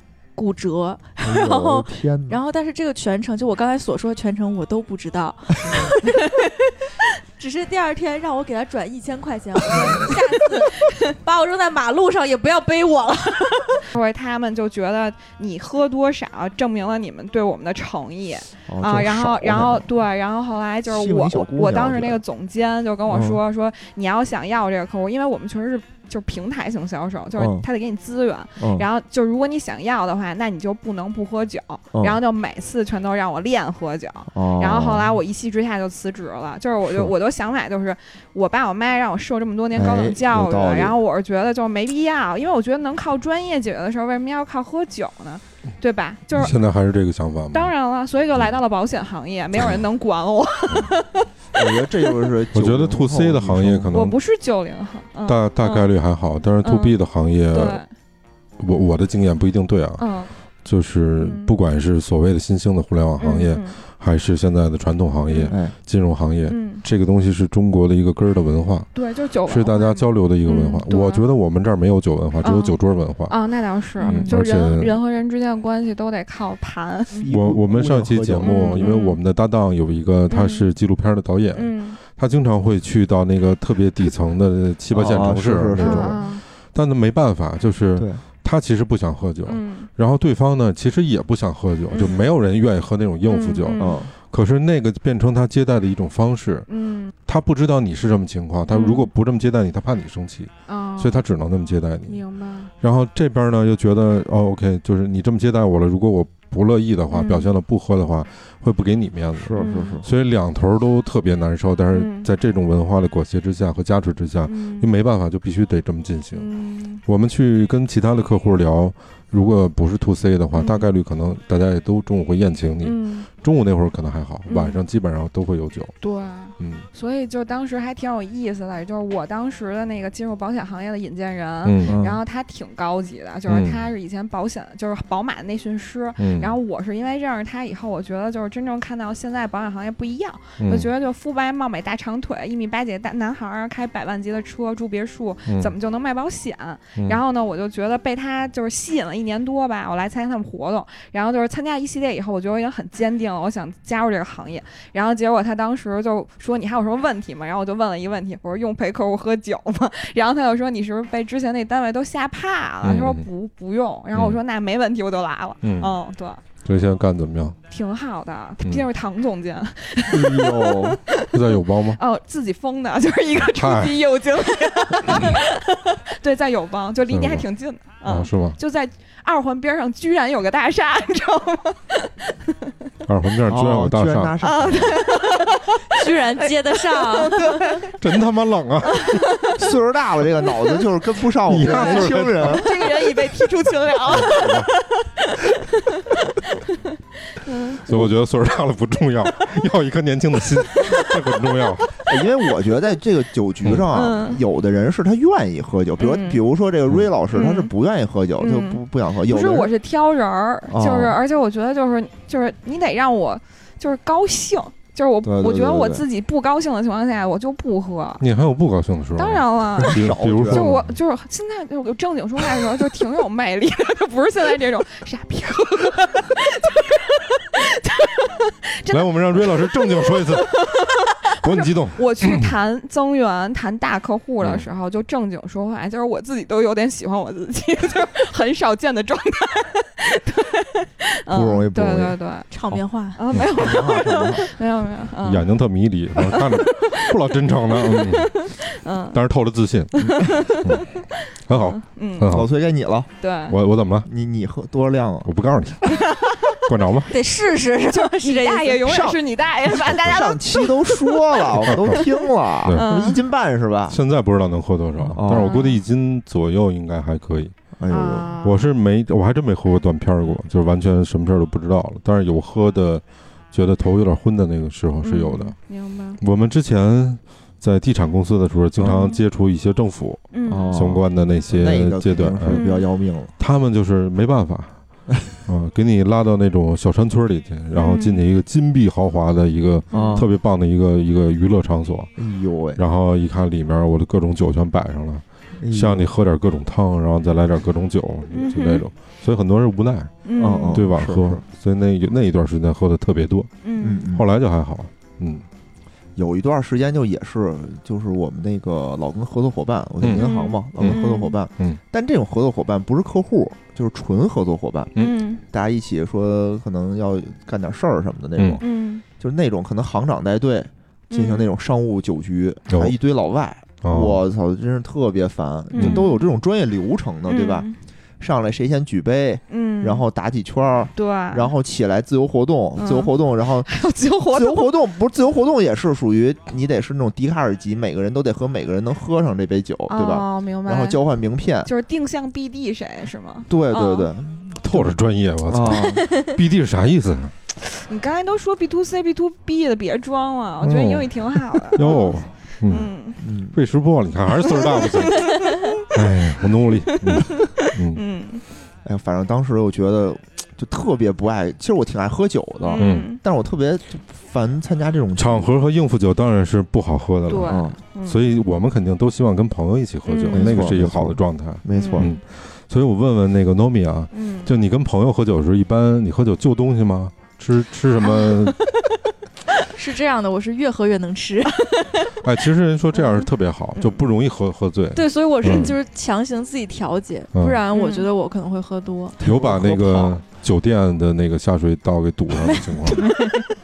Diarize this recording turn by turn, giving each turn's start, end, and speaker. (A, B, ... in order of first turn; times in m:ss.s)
0:00.4-0:06.1 A
0:01.2-0:02.4 B
0:07.4-0:13.8 A
0:13.9-0:46.6 C
0:18.7-0:19.9 B
0:20.9-0:22.2 B
0:23.1-0:23.4 B
0:27.4-0:27.6 B
0:28.6-0:28.9 B
0:34.3-0:35.1 B
0:39.7-0:41.0 B
0:46.3-0:47.7 D
0:47.5-0:52.3 C
0:51.5-0:53.9 B
0:52.5-0:54.2 D
0:53.9-0:55.9 C
0:55.2-0:57.8 D
0:56.6-0:57.0 C
0:57.5-0:57.9 C
0:58.6-1:00.1 D
1:00.0-1:00.3 C
1:00.6-1:08.9 D
1:01.2-1:01.6 C
1:03.2-1:03.8 C
1:05.3-1:05.5 C
1:06.5-1:06.8 C
1:08.9-1:11.2 C
1:09.5-1:13.4 D
1:12.4-1:17.2 C
1:14.0-1:15.0 D
1:14.0-1:14.4 A
1:17.1-1:18.6 B
1:17.3-1:36.7 D
1:18.4-1:19.2 C
1:20.3-1:20.7 C
1:21.5-1:22.0 C
1:24.9-1:26.2 B
1:25.7-1:26.4 C
1:28.0-1:28.2 B
1:29.4-1:29.9 C
1:31.9-1:32.2 C
1:33.2-1:34.0 C
1:33.8-1:34.1 B
1:36.7-1:37.1 C
1:37.2-1:42.2 D
1:38.7-1:39.1 C
1:40.7-1:41.2 C
1:42.1-1:42.7 C
1:42.8-1:56.5 D
1:47.1-1:47.5 C
1:49.4-1:50.1 B
1:49.6-1:50.0 C
1:51.9-1:52.3 C
1:54.4-1:54.9 C
1:56.3-1:57.0 C
1:57.0-2:05.9 D
2:00.5-2:00.9 C
2:02.8-2:03.3 C
2:04.5-2:04.8 C
2:06.0-2:46.4 C
2:06.6-2:06.9 D
2:11.6-2:12.0 D
2:11.8-2:12.2 B
2:13.5-2:13.9 D
2:16.2-2:16.5 D
2:20.6-2:20.9 D
2:25.5-2:25.7 D
2:42.8-2:43.3 D
2:44.1-2:44.4 D
2:45.6-2:45.9 D
2:46.6-2:47.6 D
2:47.7-3:02.7 C
2:50.1-2:51.0 B
2:51.3-2:52.0 D
2:53.4-2:54.0 D
2:57.1-2:57.4 D
2:58.0-2:58.6 D
3:03.0-3:04.8 D
3:03.5-3:05.0 B
3:04.4-3:07.9 C
3:05.9-3:07.8 A
3:08.0-3:09.2 D
3:08.9-3:09.7 C
3:09.6-3:12.8 B
3:10.4-3:10.8 C
3:11.4-3:12.8 D
3:11.6-3:16.1 C
3:14.1-3:14.7 B
3:14.1-3:14.7 D
3:17.3-3:18.0 C
3:17.8-3:21.9 D
3:20.7-3:21.1 C
3:22.0-3:29.7 B
3:23.9-3:24.4 C
3:26.0-3:26.4 C
3:27.3-3:27.7 C
3:28.4-3:38.2 C
3:30.7-3:31.2 B
3:35.2-3:36.0 B
3:38.2-3:40.9 D
3:39.2-4:02.5 C
3:39.8-3:40.7 B
3:48.9-3:50.7 D
3:51.4-3:52.5 D
3:54.4-3:54.7 D
4:01.3-4:02.2 B
4:02.5-4:03.2 A
4:03.2-4:05.5 C
4:03.5-4:04.4 B
4:05.2-4:08.5 D
4:06.2-4:07.2 C
4:07.7-4:09.2 C
4:09.1-4:10.9 D
4:09.9-4:12.3 C
4:10.0-4:10.3 B
4:11.5-4:12.5 D
4:12.3-4:13.1 B
4:13.2-4:13.6 C
4:13.5-4:14.1 D
4:14.0-4:15.3 B
4:15.2-4:16.1 D
4:16.6-4:17.1 D
4:17.1-4:19.0 A
4:17.9-4:23.2 C
4:18.8-4:19.2 B
4:19.8-4:24.0 B
4:19.9-4:20.2 D
4:21.6-4:22.0 D
4:23.9-4:27.5 D
4:25.0-4:25.6 B
4:25.2-4:25.8 C
4:27.8-4:28.3 B
4:27.9-4:28.7 C
4:28.4-4:35.5 D
4:35.0-4:36.2 C
4:36.2-4:42.6 D
4:38.8-4:39.0 B
4:38.8-4:39.2 C
4:40.3-4:40.7 C
4:40.5-4:43.3 B
4:42.5-4:42.9 C
4:43.4-4:44.8 D
4:45.4-4:52.1 D
4:47.7-4:48.2 C
4:49.9-4:50.3 C
4:49.9-4:50.3 B
4:52.2-4:52.8 B
4:52.7-5:00.1 D
4:55.6-4:56.1 B
4:58.3-4:58.8 C
5:00.2-5:00.8 C
5:00.4-5:01.4 B
5:00.7-5:03.5 D
5:03.6-5:04.0 C
5:03.8-5:04.2 B
5:04.1-5:05.4 D
5:06.2-5:14.9 B
5:10.1-5:11.4 C
5:10.8-5:11.8 D
5:15.0-5:15.4 C
5:15.5-5:18.6 B
5:18.4-5:18.6 D
5:18.6-5:19.0 C
5:19.2-5:27.7 B
5:21.1-5:21.5 C
5:22.7-5:22.9 D
5:23.8-5:24.2 D
5:25.7-5:26.3 C
5:25.8-5:26.0 D
5:27.2-5:27.8 C
5:28.2-5:33.7 B
5:29.5-5:30.0 C
5:31.0-5:31.5 C
5:32.8-5:34.8 C
5:34.3-5:41.7 B
5:39.9-5:41.0 C
5:41.6-5:44.1 C
5:43.5-5:46.0 B
5:44.6-5:47.3 D
5:47.7-5:53.2 C
5:50.6-5:52.9 D
5:53.2-5:53.6 B
5:53.5-5:58.0 D
5:54.5-5:55.8 C
5:56.7-5:58.4 C
5:58.8-6:05.5 B
6:02.6-6:03.2 C
6:02.8-6:03.1 D
6:05.2-6:18.6 D
6:07.3-6:08.2 C
6:07.4-6:07.8 B
6:10.0-6:10.7 C
6:10.3-6:12.1 B
6:11.7-6:12.1 C
6:14.1-6:14.5 C
6:18.0-6:18.8 C
6:19.7-6:21.8 A
6:22.2-6:25.7 D
6:22.9-6:24.0 C
6:24.9-6:29.2 A
6:27.3-6:27.6 D
6:27.7-6:28.1 C
6:29.2-6:30.2 B
6:29.2-6:33.0 D
6:32.5-6:33.5 A
6:33.0-6:33.4 C